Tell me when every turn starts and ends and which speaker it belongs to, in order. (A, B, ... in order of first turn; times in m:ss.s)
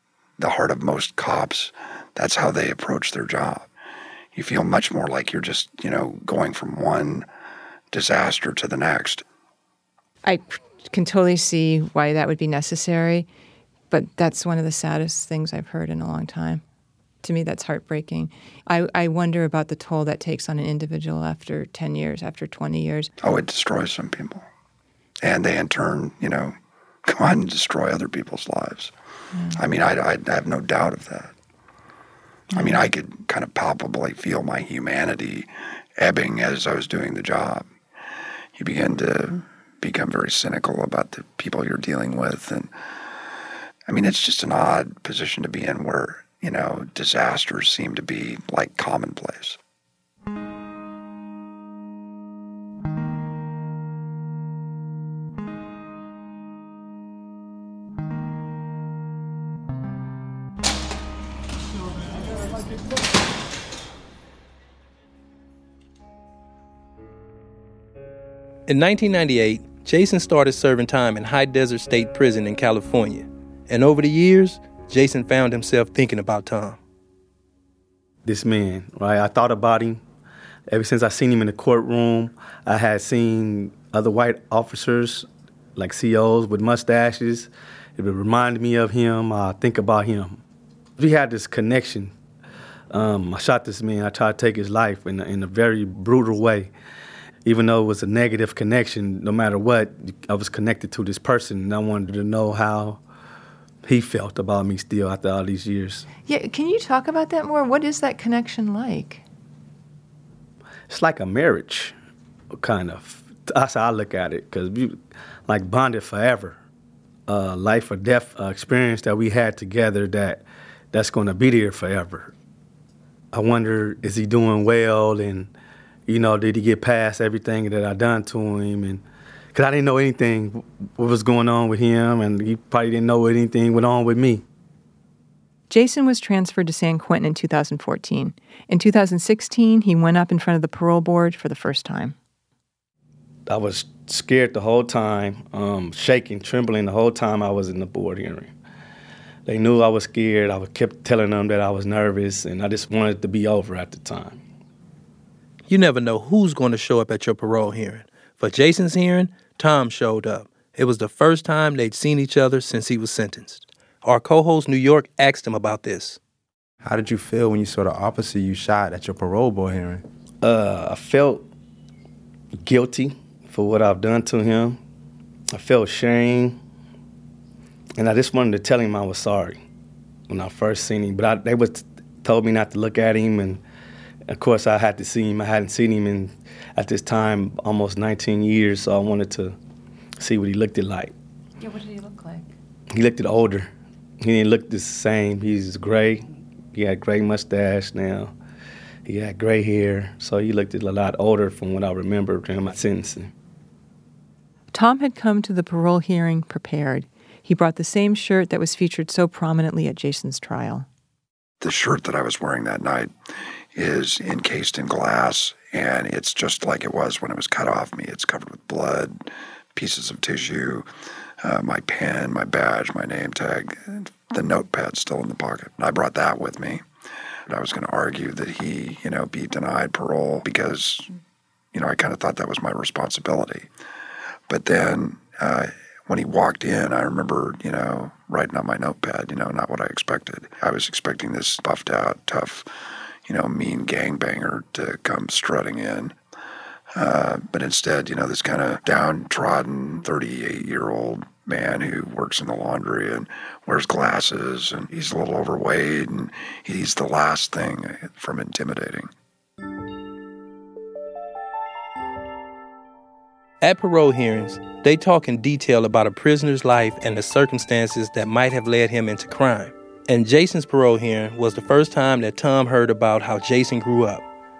0:00.4-0:03.7 A
0:04.3-0:07.3 A
0:07.9-0:09.2 A
0:10.2-0:13.3 B
0:13.9-0:16.6 B
0:17.2-0:23.1 B
0:23.2-0:24.4 A
0:25.2-0:28.9 A
0:29.3-0:29.6 B
0:29.5-0:31.3 A
0:32.5-0:37.7 A
0:32.6-0:32.8 B
0:38.6-0:42.7 A
0:43.9-0:49.6 A
1:08.7-1:16.8 C
1:18.2-1:20.0 D
1:20.7-1:30.4 D
1:31.0-1:32.1 D
1:32.9-1:36.7 D
1:37.4-1:43.0 D
1:43.8-1:46.1 D
1:46.2-1:49.2 B
1:50.9-1:51.9 D
1:52.5-1:56.6 D
1:57.3-2:02.3 D
2:03.3-2:05.5 D
2:06.1-2:09.0 D
2:09.5-2:14.4 D
2:15.7-2:22.2 B
2:23.5-2:28.5 D
2:29.4-2:34.4 D
2:35.7-2:46.2 C
2:46.8-2:50.0 E
2:50.4-2:51.4 D
2:52.6-2:54.8 D
2:55.5-2:56.6 D
2:58.0-2:59.6 D
3:00.3-3:03.6 D
3:04.3-3:09.6 D
3:10.2-3:11.1 D
3:11.6-3:12.5 B
3:12.9-3:13.7 D
3:14.2-3:18.3 D
3:19.0-3:23.3 D
3:24.7-3:30.9 B
3:31.6-3:33.1 A
3:33.7-3:40.9 A
3:41.4-3:46.8 A
3:47.5-3:51.1 A
3:51.7-3:53.7 A
3:54.5-4:02.7 A
4:03.2-4:06.2 A
4:07.0-4:19.1 A
4:23.6-4:34.2 C